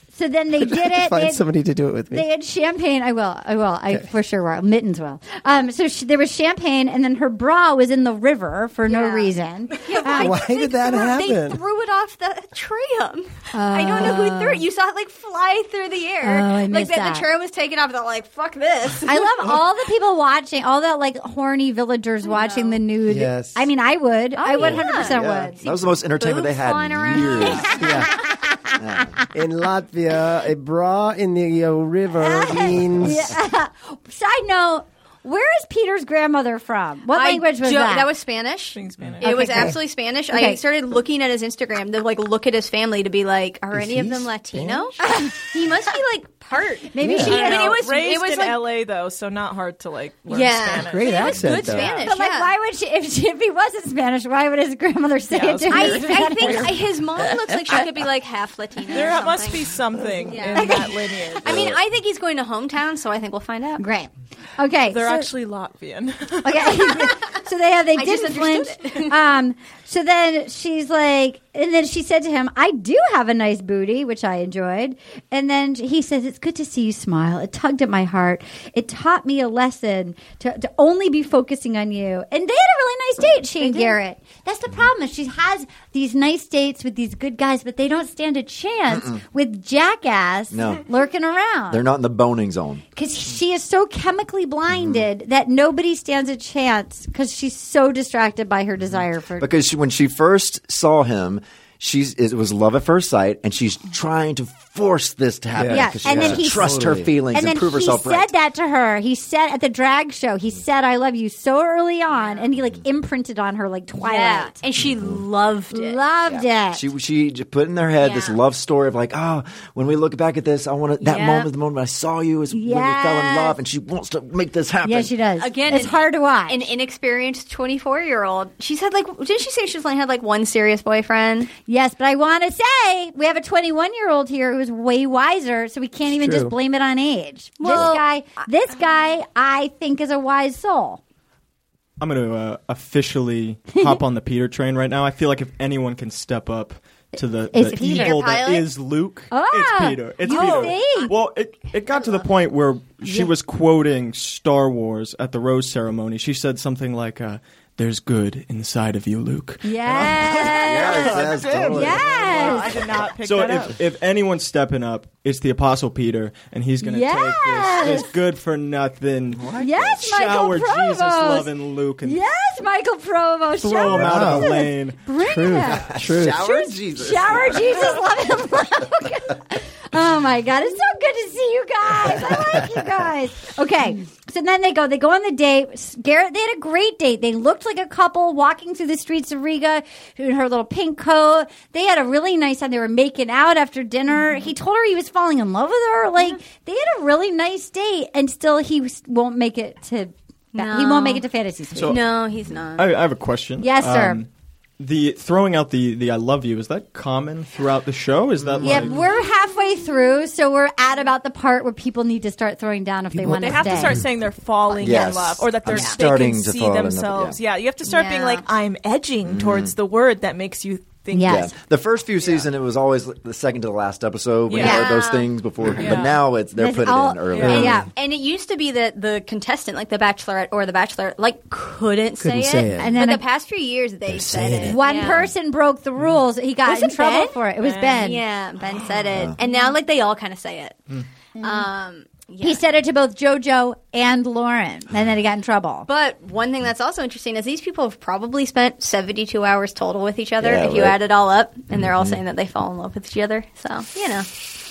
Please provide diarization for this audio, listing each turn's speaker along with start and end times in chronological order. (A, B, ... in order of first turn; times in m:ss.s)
0:00.1-0:01.5 A
0:00.6-0:02.2 B
0:02.1-0:10.4 A
0:08.8-0:19.3 C
0:10.1-0:11.6 B
0:13.5-0:14.6 A
0:16.2-0:17.2 A
0:19.0-0:25.6 A
0:22.2-0:22.8 C
0:23.1-0:23.7 B
0:24.3-0:28.1 C
0:24.6-0:27.8 D
0:27.6-0:28.7 A
0:27.8-0:28.1 B
0:28.7-0:29.2 D
0:29.3-0:33.4 B
0:32.2-0:38.1 A
0:37.1-0:48.6 C
0:38.7-0:39.7 E
0:39.2-0:39.8 A
0:40.3-0:40.6 A
0:43.7-0:44.9 B
0:45.0-0:45.4 A
0:46.9-0:47.8 A
0:47.0-0:47.4 B
0:47.2-0:52.0 E
0:50.3-0:52.5 C
0:50.8-0:51.9 B
0:52.0-0:56.8 A
0:55.3-0:56.8 E
0:55.7-1:03.8 C
0:58.9-1:01.6 E
1:00.6-1:00.9 A
1:01.4-1:01.8 D
1:03.8-1:05.3 A
1:04.9-1:07.1 E
1:06.4-1:31.8 A
1:07.9-1:09.2 C
1:23.6-1:24.0 C
1:28.9-1:29.2 D
1:30.5-1:30.8 D
1:31.7-1:32.8 D
1:32.9-1:39.5 A
1:34.7-1:35.0 D
1:39.4-1:48.3 D
1:45.5-1:47.1 B
1:45.7-1:46.7 A
1:47.3-1:54.6 A
1:52.1-1:52.5 C
1:54.0-1:56.0 C
1:54.8-1:55.2 D
1:55.7-1:56.8 A
1:56.2-2:05.1 D
1:58.0-1:58.4 C
2:01.0-2:01.5 C
2:02.5-2:03.6 A
2:04.8-2:06.7 A
2:05.4-2:11.5 C
2:11.6-2:21.0 A
2:16.0-2:16.5 B
2:17.6-2:18.1 C
2:22.0-2:52.2 F
2:27.5-2:28.2 A
2:27.6-2:28.7 C
2:29.3-2:31.1 A
2:30.2-2:31.1 C
2:33.0-2:33.3 A
2:39.6-2:42.7 A
2:40.0-2:42.5 D
2:42.0-2:43.8 E
2:46.8-2:48.1 A
2:49.3-2:50.0 D
2:49.6-2:51.5 A
2:52.0-3:22.0 A
2:53.6-2:55.0 F
2:53.9-2:56.5 B
2:55.8-2:58.0 D
3:20.5-3:21.2 C
3:21.7-3:22.2 F
3:21.8-3:22.9 C
3:22.8-3:24.3 F
3:23.6-3:24.2 A
3:24.8-3:29.0 F
3:28.5-3:28.8 D
3:28.6-3:34.0 A
3:33.1-3:34.0 B
3:33.3-3:41.5 E
3:34.8-3:37.4 D
3:35.7-3:36.0 C
3:37.8-3:38.5 C
3:39.2-3:39.7 D
3:41.1-3:41.5 A
3:41.2-3:47.9 D
3:44.5-3:44.9 E
3:44.5-3:45.3 C
3:45.8-3:46.2 E
3:46.6-3:47.9 A
3:47.3-3:47.7 E
3:47.4-3:47.8 B
3:47.5-3:55.3 C
3:52.2-3:53.0 B
3:52.8-3:53.2 A
3:54.1-3:55.2 D
3:54.2-3:54.8 B
3:54.6-3:58.2 A
3:56.6-4:02.6 C
3:57.6-3:58.1 E
3:59.1-3:59.3 D
4:01.4-4:01.7 A
4:02.4-4:05.9 A
4:05.8-4:14.3 C
4:10.4-4:11.0 D
4:11.7-4:12.2 D